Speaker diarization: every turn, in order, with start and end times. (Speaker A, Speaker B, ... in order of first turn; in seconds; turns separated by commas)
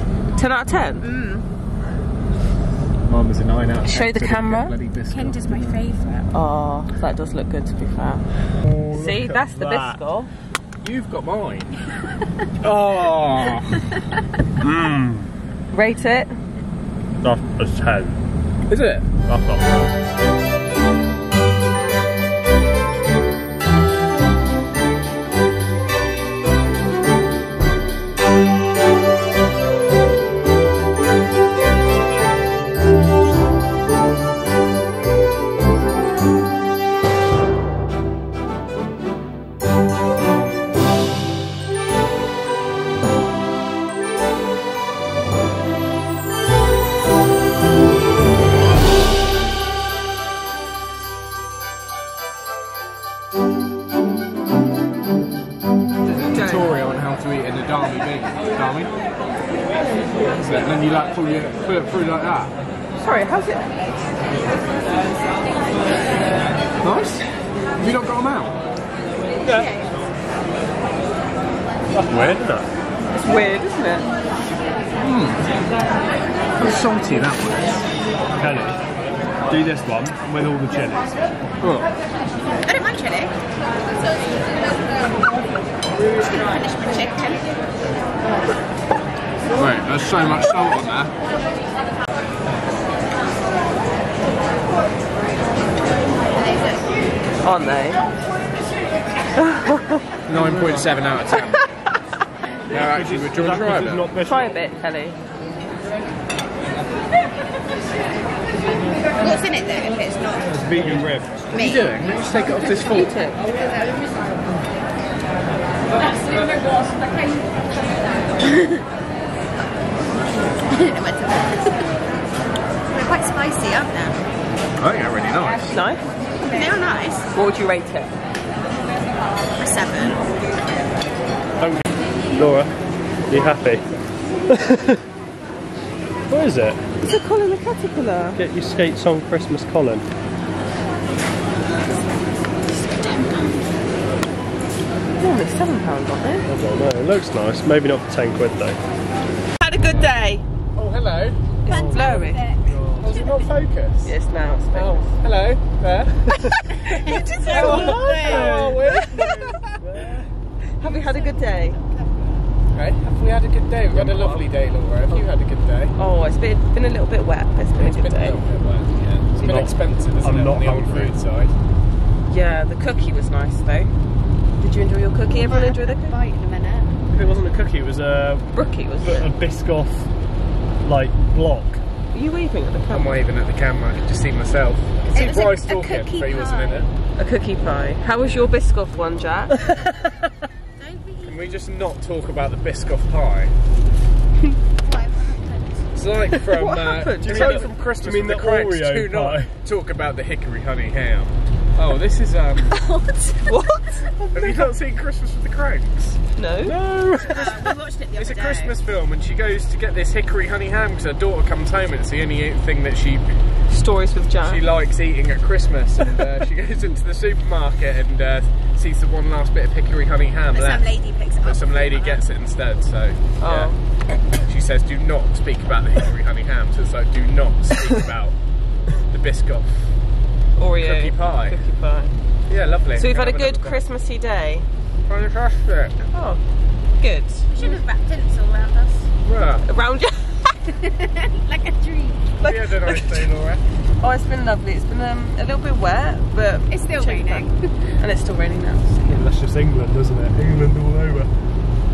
Speaker A: 0.3-1.1, Speaker B: 1.0-1.5, Speaker C: 3.1-5.8, Speaker A: 3.8-4.7, Speaker B: 5.1-6.3, Speaker A: 6.3-8.2, Speaker D: 8.6-10.0, Speaker A: 8.9-10.3, Speaker C: 10.8-11.7, Speaker C: 12.6-13.9, Speaker D: 14.6-15.3, Speaker A: 15.7-16.4, Speaker D: 17.2-18.2, Speaker C: 18.7-19.1, Speaker D: 19.2-19.9, Speaker A: 56.0-56.7, Speaker C: 56.3-58.9, Speaker C: 60.3-62.5, Speaker A: 63.0-63.7, Speaker C: 66.8-67.2, Speaker C: 67.8-68.6, Speaker B: 69.5-70.0, Speaker D: 71.9-72.7, Speaker A: 73.1-74.1, Speaker C: 75.0-75.5, Speaker C: 76.6-77.8, Speaker D: 78.3-78.8, Speaker D: 79.5-81.1, Speaker C: 81.6-81.9, Speaker B: 82.6-83.3, Speaker B: 86.0-87.4, Speaker C: 89.5-91.1, Speaker B: 96.4-96.7, Speaker A: 97.4-98.0, Speaker A: 99.4-100.0, Speaker C: 100.2-101.7, Speaker C: 102.7-104.1, Speaker D: 102.8-104.6, Speaker A: 104.2-105.2, Speaker B: 109.2-110.7, Speaker D: 110.6-111.3, Speaker B: 111.5-111.9, Speaker C: 111.5-113.4, Speaker B: 120.6-122.0, Speaker B: 122.9-124.2, Speaker C: 124.8-125.7, Speaker A: 125.7-126.0, Speaker B: 126.4-127.3, Speaker A: 127.3-128.1, Speaker B: 129.6-130.2, Speaker D: 131.6-132.8, Speaker D: 133.3-133.9, Speaker D: 134.4-135.0, Speaker D: 136.3-136.8, Speaker A: 137.0-138.4, Speaker D: 138.3-140.1, Speaker B: 143.0-143.6, Speaker A: 145.2-146.4, Speaker D: 146.4-148.8, Speaker A: 149.6-150.4, Speaker C: 150.7-151.4, Speaker A: 151.6-152.4, Speaker D: 151.7-153.1, Speaker B: 151.7-153.5, Speaker C: 153.0-154.1, Speaker A: 154.0-155.1, Speaker C: 154.7-159.3, Speaker A: 156.3-159.4, Speaker B: 156.7-159.8, Speaker D: 157.6-160.3, Speaker A: 160.8-161.8, Speaker B: 160.8-162.5, Speaker C: 162.7-165.9, Speaker A: 164.0-164.4, Speaker A: 165.9-168.4, Speaker C: 167.7-171.5, Speaker D: 169.4-171.1, Speaker A: 172.3-173.9, Speaker A: 174.6-176.2, Speaker B: 175.2-177.0, Speaker D: 177.1-178.5, Speaker A: 178.5-179.3, Speaker D: 179.0-180.1, Speaker D: 180.8-181.8, Speaker A: 182.1-183.2, Speaker C: 182.9-186.9, Speaker B: 185.1-186.9, Speaker A: 187.2-189.6, Speaker C: 188.2-189.3, Speaker B: 190.8-191.6, Speaker C: 191.2-193.5, Speaker B: 194.8-195.9, Speaker C: 195.9-202.8, Speaker A: 196.4-197.7, Speaker D: 197.2-199.5, Speaker A: 202.7-204.7, Speaker C: 204.3-206.2, Speaker A: 206.3-206.8, Speaker D: 206.6-207.5, Speaker B: 207.2-208.8, Speaker C: 207.2-213.3, Speaker A: 213.7-214.7, Speaker C: 214.4-223.8, Speaker B: 220.5-222.2, Speaker A: 223.4-223.8, Speaker C: 224.3-228.3, Speaker C: 228.9-229.9, Speaker A: 230.6-232.2, Speaker C: 230.8-231.6, Speaker C: 232.5-233.9, Speaker A: 232.9-234.7, Speaker C: 235.0-235.9, Speaker A: 236.1-236.4, Speaker A: 237.0-237.8, Speaker B: 237.5-239.1, Speaker C: 239.2-239.6, Speaker A: 239.6-240.6, Speaker B: 240.7-242.3, Speaker A: 242.4-243.3, Speaker C: 242.4-243.6, Speaker A: 244.0-249.3, Speaker B: 246.7-247.7, Speaker D: 249.0-251.3